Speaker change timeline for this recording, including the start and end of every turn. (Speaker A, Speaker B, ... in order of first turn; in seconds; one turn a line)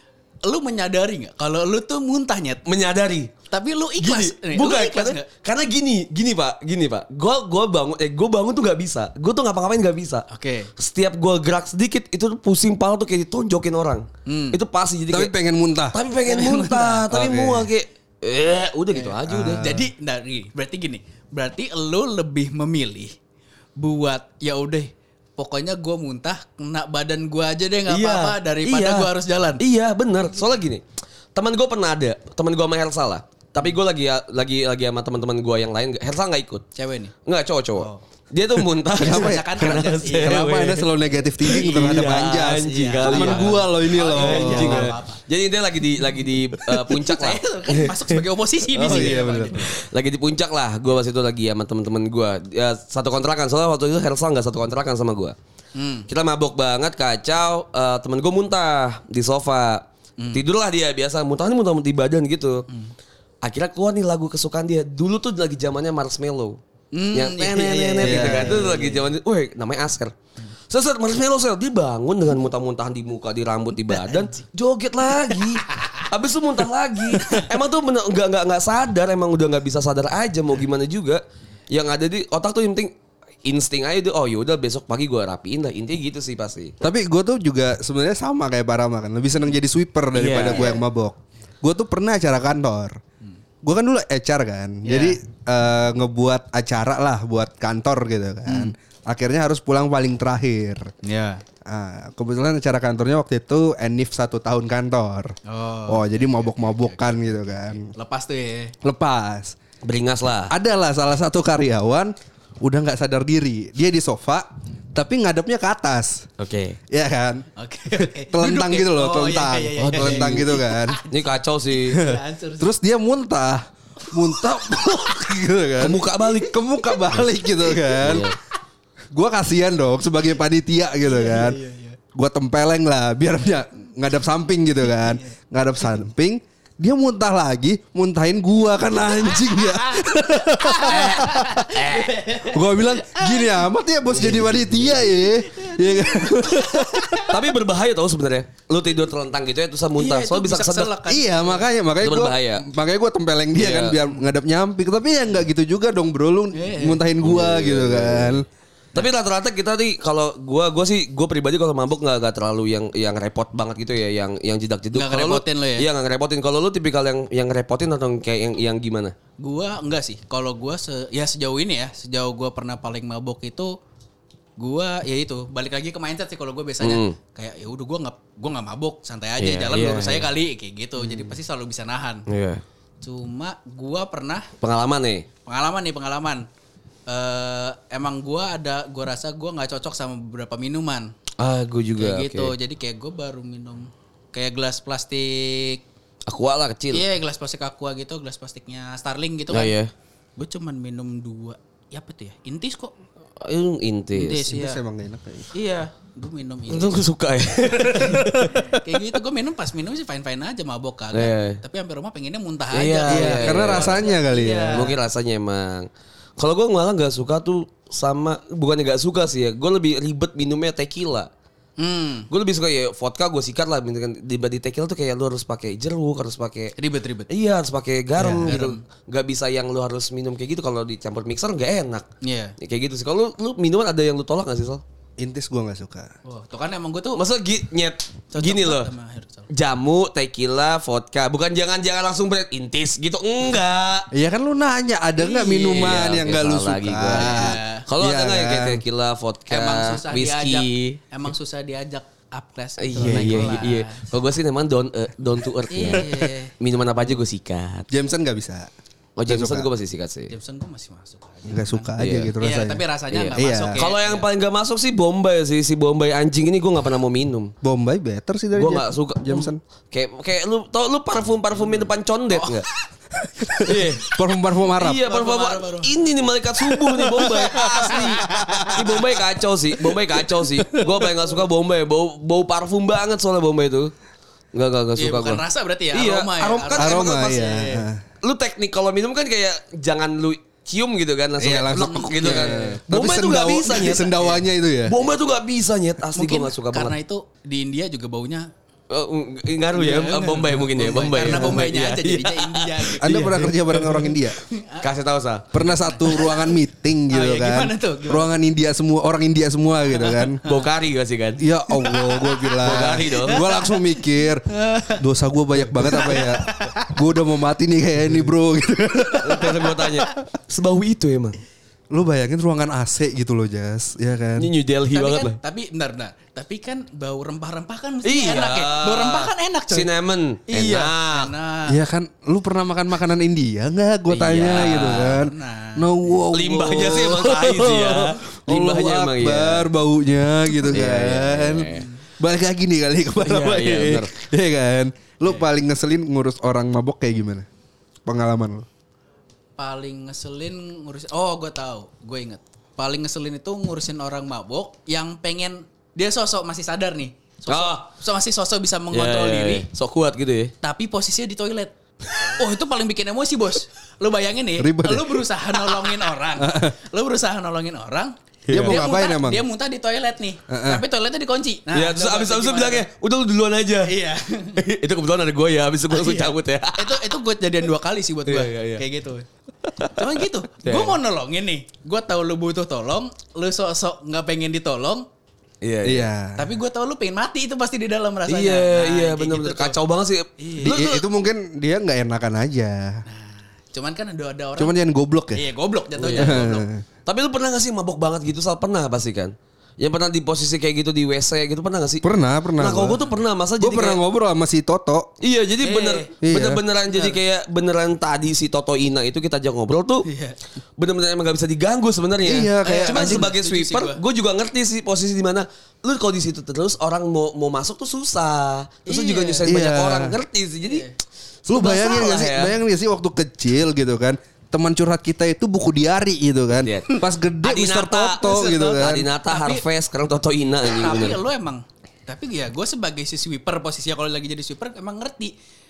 Speaker A: 0.4-2.6
Speaker B: 2.7-3.3
Speaker A: 3.5-5.3
Speaker B: 4.0-10.3
Speaker A: 10.3-10.7
Speaker B: 10.8-15.3
Speaker A: 14.3-14.6
Speaker C: 15.1-16.0
Speaker B: 15.9-19.7
Speaker A: 16.2-17.1
Speaker C: 17.1-17.7
Speaker A: 18.9-23.1
Speaker C: 19.3-19.9
Speaker A: 23.8-29.6
Speaker B: 27.9-30.8
Speaker B: 31.4-36.6
Speaker A: 36.8-37.1
Speaker B: 37.3-40.9
Speaker C: 39.0-45.0
Speaker A: 39.0-40.5
Speaker A: 41.4-45.2
Speaker B: 41.4-48.2
Speaker A: 46.8-49.7
Speaker C: 48.7-49.7
Speaker B: 48.8-55.3
Speaker A: 55.8-56.1
Speaker B: 56.1-62.7
Speaker B: 63.4-66.6
Speaker A: 66.9-69.0
Speaker B: 67.1-70.1
Speaker C: 68.0-68.8
Speaker B: 70.7-82.9
Speaker A: 73.9-74.4
Speaker A: 75.2-76.1
Speaker A: 77.2-77.5
Speaker B: 83.5-86.7
Speaker C: 86.8-93.0
Speaker B: 90.1-90.8
Speaker C: 93.6-100.9
Speaker A: 94.8-95.2
Speaker A: 98.5-98.7
Speaker A: 101.0-101.4
Speaker C: 101.7-105.3
Speaker A: 105.5-108.8
Speaker C: 105.9-107.9
Speaker C: 108.8-109.6
Speaker B: 109.8-110.5
Speaker C: 110.5-116.3
Speaker B: 116.4-116.8
Speaker C: 116.9-121.0
Speaker A: 117.6-121.1
Speaker B: 119.8-120.5
Speaker B: 121.1-122.0
Speaker A: 121.8-122.7
Speaker C: 121.9-128.3
Speaker B: 125.8-126.5
Speaker A: 126.8-127.2
Speaker B: 128.0-128.4
Speaker C: 129.1-131.6
Speaker A: 131.0-132.0
Speaker C: 132.1-141.7
Speaker A: 135.0-135.3
Speaker A: 139.2-143.6
Speaker B: 140.8-142.5
Speaker C: 142.5-147.3
Speaker B: 144.1-145.1
Speaker A: 145.3-147.3
Speaker B: 147.3-150.9
Speaker A: 150.0-151.7
Speaker C: 151.1-158.4
Speaker B: 152.0-152.7
Speaker B: 153.6-154.0
Speaker A: 156.5-157.0
Speaker B: 157.2-158.4
Speaker B: 158.9-169.1
Speaker A: 164.9-165.9
Speaker A: 169.4-173.8
Speaker A: 174.6-182.2
Speaker B: 176.8-177.2
Speaker B: 179.4-180.3
Speaker B: 181.0-181.4
Speaker B: 182.3-182.6
Speaker A: 183.0-184.5
Speaker B: 184.6-185.3
Speaker A: 185.5-186.5
Speaker A: 187.1-191.1
Speaker B: 191.4-192.5
Speaker A: 192.0-195.8
Speaker B: 196.3-197.1
Speaker A: 196.9-199.7
Speaker B: 199.5-199.9
Speaker A: 200.4-202.9
Speaker B: 203.4-204.5
Speaker A: 204.1-204.8
Speaker C: 204.5-205.5
Speaker A: 205.5-207.1
Speaker B: 206.7-208.8
Speaker A: 207.7-214.9
Speaker B: 211.1-211.6
Speaker B: 212.7-214.1
Speaker C: 213.1-214.9
Speaker B: 214.7-221.3
Speaker A: 221.8-222.3
Speaker B: 222.3-226.8
Speaker A: 226.8-227.3
Speaker B: 227.3-232.1
Speaker C: 228.2-228.6
Speaker A: 228.3-228.8
Speaker A: 232.2-232.5
Speaker B: 232.6-234.8
Speaker C: 235.2-236.1
Speaker A: 236.2-237.2
Speaker B: 237.2-238.9
Speaker A: 238.3-239.5
Speaker B: 239.5-244.1
Speaker C: 244.1-248.8
Speaker B: 245.2-251.0
Speaker A: 247.1-247.8
Speaker A: 249.5-254.1
Speaker B: 252.8-257.9
Speaker C: 253.0-253.6
Speaker A: 255.7-256.5
Speaker C: 257.9-258.7
Speaker B: 259.2-260.3
Speaker C: 259.3-259.7
Speaker A: 260.3-264.3
Speaker C: 261.5-262.8
Speaker B: 262.0-262.4
Speaker B: 263.1-267.5
Speaker C: 263.3-263.8
Speaker C: 267.6-269.6
Speaker B: 268.5-272.7
Speaker A: 272.3-272.6
Speaker C: 273.4-275.0
Speaker B: 273.6-274.1
Speaker B: 274.8-283.9
Speaker A: 275.0-275.9
Speaker A: 276.8-279.0
Speaker C: 277.3-279.1
Speaker C: 280.6-281.0
Speaker B: 284.5-287.6
Speaker A: 285.0-287.9
Speaker C: 286.8-288.0
Speaker B: 288.2-297.0
Speaker C: 291.4-295.0
Speaker A: 291.6-292.7
Speaker A: 296.1-298.5
Speaker B: 298.9-303.0
Speaker A: 299.7-304.9
Speaker C: 301.2-301.7
Speaker C: 303.0-304.4
Speaker B: 304.8-305.5
Speaker C: 305.5-310.4
Speaker A: 305.6-306.5
Speaker A: 307.1-308.3
Speaker A: 310.0-310.6
Speaker B: 310.4-311.4
Speaker C: 311.4-319.8
Speaker A: 311.7-314.0
Speaker B: 312.6-313.4
Speaker A: 314.5-315.0
Speaker A: 315.8-316.9
Speaker A: 319.1-319.5
Speaker B: 319.2-321.4
Speaker C: 321.9-324.5
Speaker B: 324.4-325.4
Speaker A: 324.9-329.9
Speaker B: 328.0-331.3
Speaker A: 330.5-331.8
Speaker C: 331.7-347.5
Speaker B: 334.1-335.3
Speaker A: 334.3-335.9
Speaker B: 336.3-339.7
Speaker B: 340.7-341.9
Speaker B: 343.2-344.1
Speaker C: 348.1-348.7
Speaker A: 349.6-359.7
Speaker B: 357.5-357.9
Speaker B: 358.9-360.5
Speaker A: 360.6-372.9
Speaker C: 364.6-365.3
Speaker C: 366.4-366.8
Speaker B: 368.5-368.8
Speaker C: 368.5-369.5
Speaker C: 370.5-370.8
Speaker B: 371.7-373.9
Speaker A: 373.9-374.6
Speaker B: 374.6-377.1
Speaker A: 375.9-379.3
Speaker B: 378.3-378.8
Speaker B: 379.7-380.1
Speaker A: 379.9-385.1
Speaker B: 380.6-381.0
Speaker B: 385.6-386.1
Speaker C: 385.8-386.5
Speaker A: 386.4-389.8
Speaker B: 388.3-391.1
Speaker A: 390.4-390.7
Speaker C: 390.6-393.0
Speaker A: 393.1-394.8
Speaker C: 394.6-395.4
Speaker A: 395.3-396.7
Speaker B: 396.0-396.4
Speaker C: 396.1-396.8
Speaker B: 397.1-402.1
Speaker C: 402.0-403.0
Speaker B: 402.6-404.0
Speaker C: 403.6-405.1
Speaker B: 405.2-410.1
Speaker A: 405.6-406.1
Speaker C: 406.2-406.6
Speaker A: 406.9-407.2
Speaker A: 410.1-410.4
Speaker B: 410.8-420.9
Speaker C: 412.2-413.3
Speaker A: 412.6-414.0
Speaker A: 418.9-419.5
Speaker C: 419.4-420.1
Speaker A: 420.7-420.9
Speaker B: 421.5-422.6
Speaker C: 421.5-429.1
Speaker B: 426.6-431.2
Speaker A: 428.2-429.6
Speaker A: 430.7-435.3